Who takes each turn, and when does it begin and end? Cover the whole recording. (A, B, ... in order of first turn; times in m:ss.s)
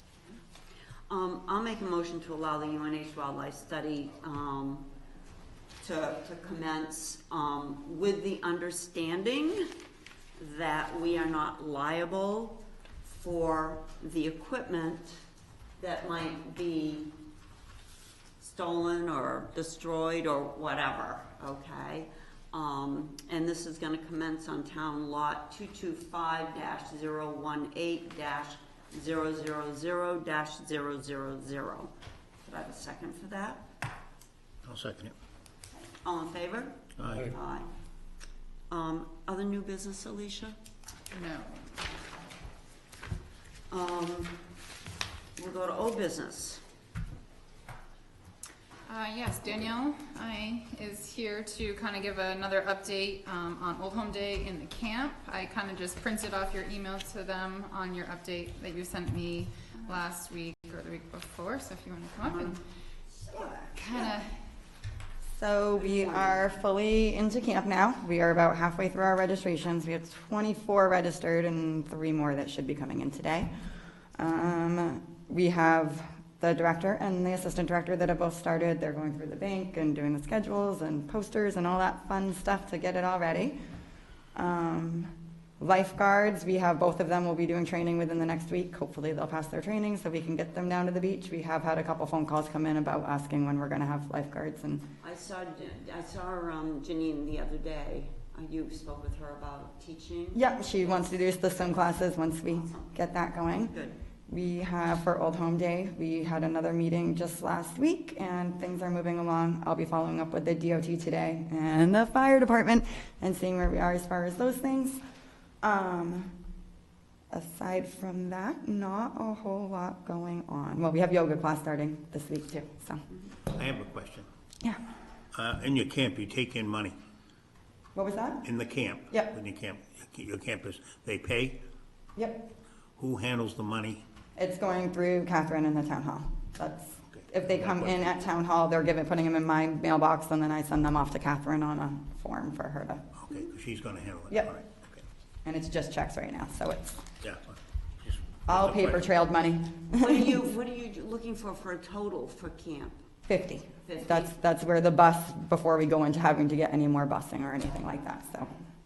0:01.1-0:04.9 A
0:05.8-0:09.7 A
0:10.4-0:15.2 A
0:15.8-0:17.1 A
0:18.4-0:33.7 A
0:34.6-0:35.1 B
0:36.0-0:37.7 A
0:37.0-0:37.3 B
0:38.7-0:40.6 A
0:41.1-0:41.8 C
0:43.7-0:44.4 A
0:45.4-0:46.6 A
0:48.8-1:02.6 C
1:02.2-1:02.5 A
1:03.2-1:03.7 A
1:03.7-1:04.3 C
1:05.3-1:13.5 D
1:14.2-1:23.6 D
1:24.3-1:34.8 D
1:35.0-1:41.2 A
1:40.3-1:43.7 D
1:42.6-1:42.9 A
1:43.7-1:44.0 A
1:44.3-1:55.0 D
1:55.6-1:56.3 D
1:57.3-2:03.0 D
2:03.5-2:04.2 B
2:05.3-2:07.0 B
2:07.9-2:08.4 D
2:08.4-2:11.6 B
2:12.2-2:12.5 D
2:13.0-2:14.0 B
2:14.4-2:23.0 D
2:17.1-2:18.1 B
2:23.2-2:25.0 B
2:25.4-2:27.1 D
2:27.2-2:29.0 B
2:28.4-2:30.4 D
2:30.0-2:33.0 A
2:33.3-2:38.5 D
2:33.8-2:34.3 A